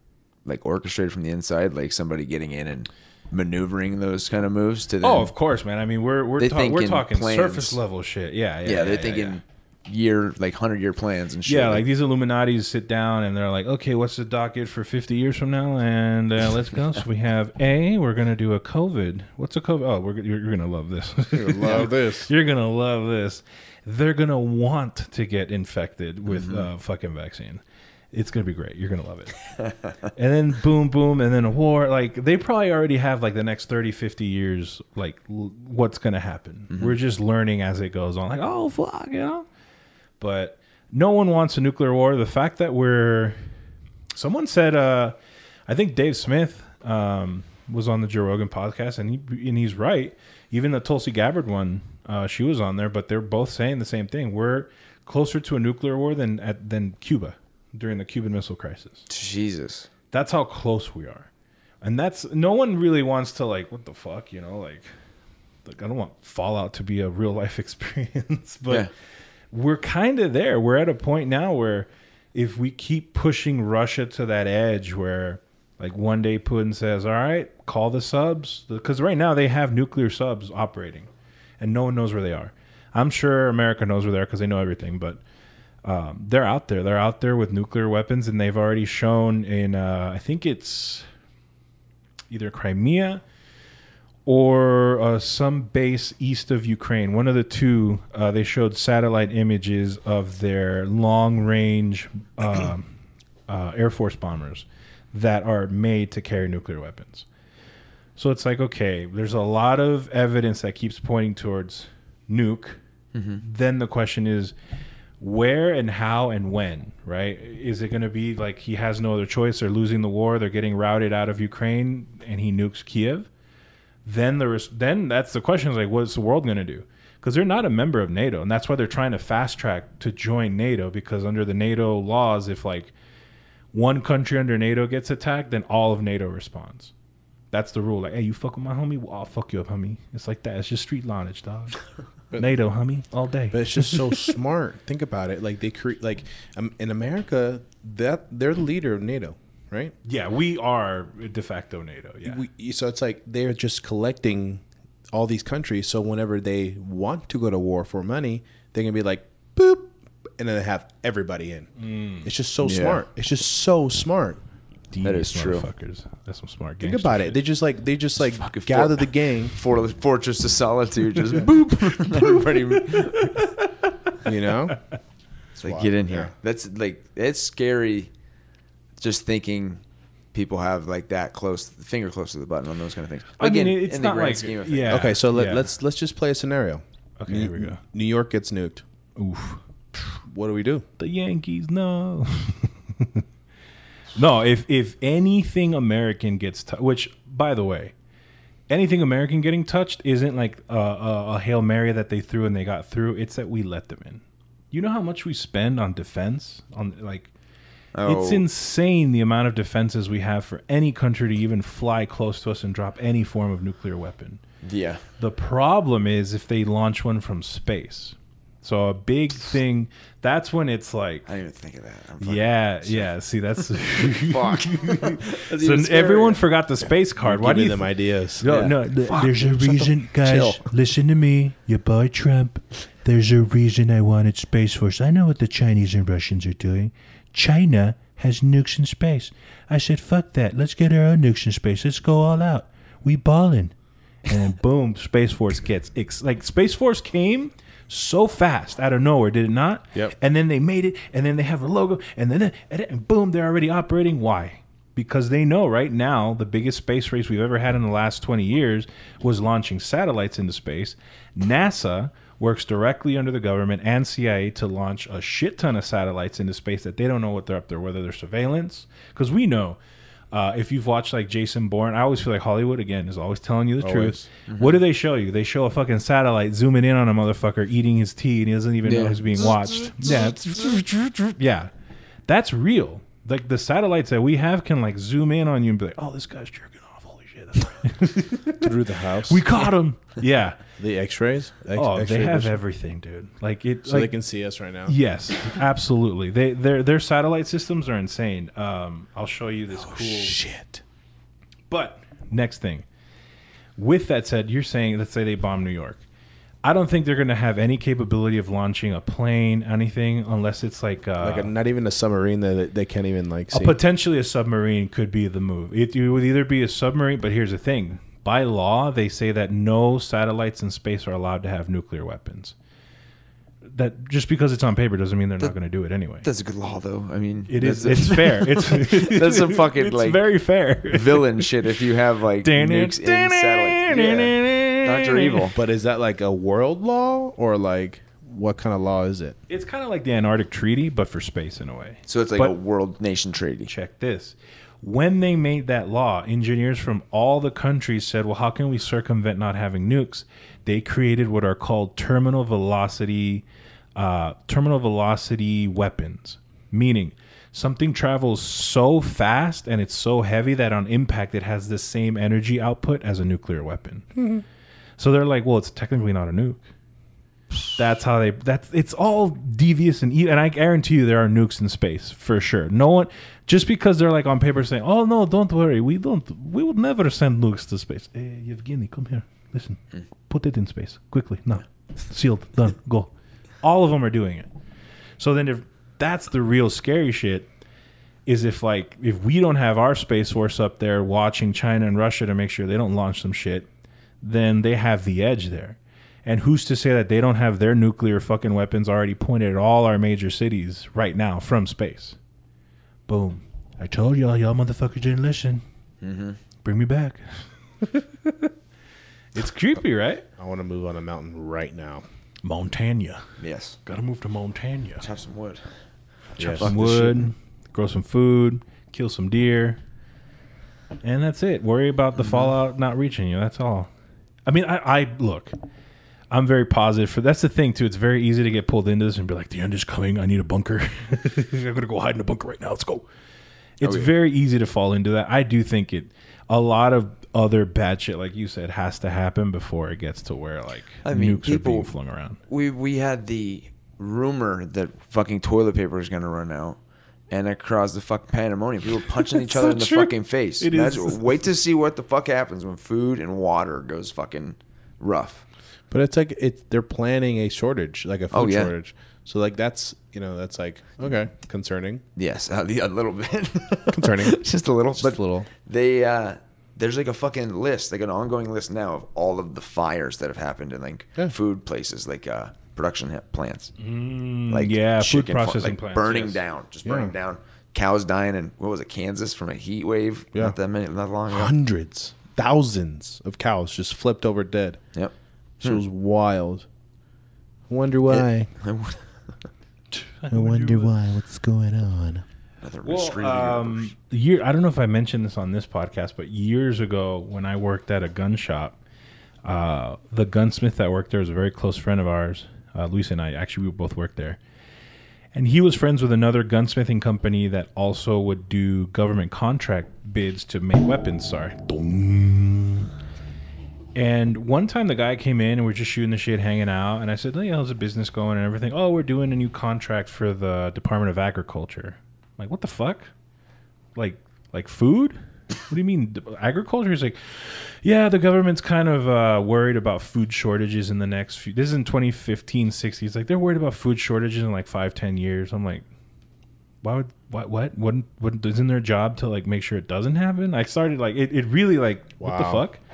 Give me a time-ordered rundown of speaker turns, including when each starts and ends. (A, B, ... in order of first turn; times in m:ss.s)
0:00.4-0:05.3 A
0:05.0-0:09.4 B
0:06.4-0:07.8 A
0:08.6-0:11.8 A
0:11.5-0:29.4 B
0:21.3-0:22.3 C
0:26.3-0:26.7 A
0:30.2-0:39.5 B
0:36.7-0:37.0 A
0:40.2-0:43.5 B
0:44.1-0:45.2 B
0:45.7-0:59.1 B
0:59.1-0:59.9 A
1:00.1-1:01.3 B
1:01.8-1:05.0 B
1:05.6-1:08.9 B
1:09.5-1:21.1 B
1:21.6-1:25.2 B
1:25.8-1:31.1 B
1:32.3-1:33.2 B
1:34.3-1:42.9 B
1:43.5-1:47.3 B
1:48.2-1:52.8 B
1:53.1-1:53.4 A
1:53.4-1:54.5 B
1:55.2-2:03.3 B
2:04.0-2:12.9 B
2:13.7-2:16.9 B
2:17.5-2:21.8 B
2:22.3-2:22.6 C
2:22.4-2:24.2 B
2:23.5-2:30.0 C
2:30.0-2:32.4 B
2:32.2-2:41.7 C
2:41.8-2:42.3 B
2:42.2-2:44.4 C
2:42.6-2:43.0 A
2:44.9-2:47.4 B
2:45.0-2:45.7 A
2:46.8-2:49.6 C
2:48.3-2:53.4 A
2:51.4-2:53.7 B
2:54.2-2:54.8 C
2:55.6-2:58.1 A
2:55.6-2:56.3 C
2:59.0-2:59.8 A
3:00.3-3:05.2 A
3:03.4-3:05.7 B
3:04.9-3:08.8 C
3:07.2-3:07.8 B
3:09.2-3:10.2 B
3:10.2-3:10.9 C
3:11.0-3:13.2 B
3:14.2-3:17.9 B
3:18.7-3:27.3 B
3:28.0-3:28.5 A
3:28.1-3:34.4 B
3:34.6-3:35.1 A
3:35.2-3:41.3 B
3:41.3-3:46.4 A
3:42.2-4:03.7 B
3:47.2-3:48.5 C
3:48.4-3:50.7 A
4:04.3-4:29.8 B
4:30.3-4:41.7 B
4:33.8-4:34.3 C
4:34.5-4:34.8 A
4:38.8-4:39.6 A
4:40.0-4:40.8 C
4:42.3-4:50.6 B
4:48.6-4:49.5 C
4:50.8-4:52.6 C
4:51.7-4:54.2 B
4:53.8-4:55.0 C
4:54.8-5:00.4 B
4:59.8-5:00.8 C
5:01.7-5:02.8 B
5:03.8-5:06.0 B
5:06.6-5:11.5 B
5:11.2-5:13.8 C
5:13.5-5:22.6 B
5:23.6-5:26.3 B
5:26.2-5:30.2 A
5:27.5-5:31.5 B
5:30.9-5:35.6 A
5:32.4-5:35.5 B
5:35.6-5:39.4 C
5:39.5-5:42.6 B
5:42.1-5:43.7 A
5:43.7-5:53.4 B
5:54.0-6:04.1 B
6:04.2-6:04.4 C
6:05.0-6:06.6 B
6:07.8-6:24.5 B
6:25.2-6:27.5 B
6:28.3-6:33.7 B
6:34.2-6:42.2 B
6:43.1-6:45.6 B
6:46.0-6:46.4 A
6:46.6-6:48.5 B
6:49.3-6:50.2 B
6:50.4-6:52.0 C
6:52.4-6:53.2 B
6:53.4-6:53.8 A
6:53.8-6:55.1 B
6:55.0-6:55.7 A
6:56.4-6:56.7 A
6:56.4-6:57.2 C
6:56.6-6:59.8 B
7:01.0-7:03.9 B
7:02.2-7:02.6 A
7:04.5-7:05.5 B
7:06.3-7:13.1 B
7:13.8-7:22.4 B
7:13.8-7:14.1 A
7:21.0-7:21.9 A
7:22.5-7:26.8 A
7:27.3-7:35.5 A
7:29.4-7:31.2 B
7:35.9-7:42.0 C
7:38.3-7:38.7 A
7:42.2-7:53.7 A
7:43.9-7:44.4 C
7:45.0-7:45.5 C
7:53.8-7:56.4 B
7:54.5-8:01.5 A
7:56.8-7:57.2 C
8:01.3-8:04.8 C
8:04.9-8:05.8 A
8:05.6-8:06.7 C
8:07.7-8:08.5 C
8:08.1-8:09.2 A
8:09.9-8:11.0 B
8:10.3-8:12.2 C
8:12.6-8:14.0 A
8:12.8-8:18.8 B
8:19.4-8:24.4 B
8:25.3-8:32.9 B
8:34.0-8:43.1 B
8:44.0-8:55.9 B
8:56.8-9:02.8 B
9:02.2-9:02.7 C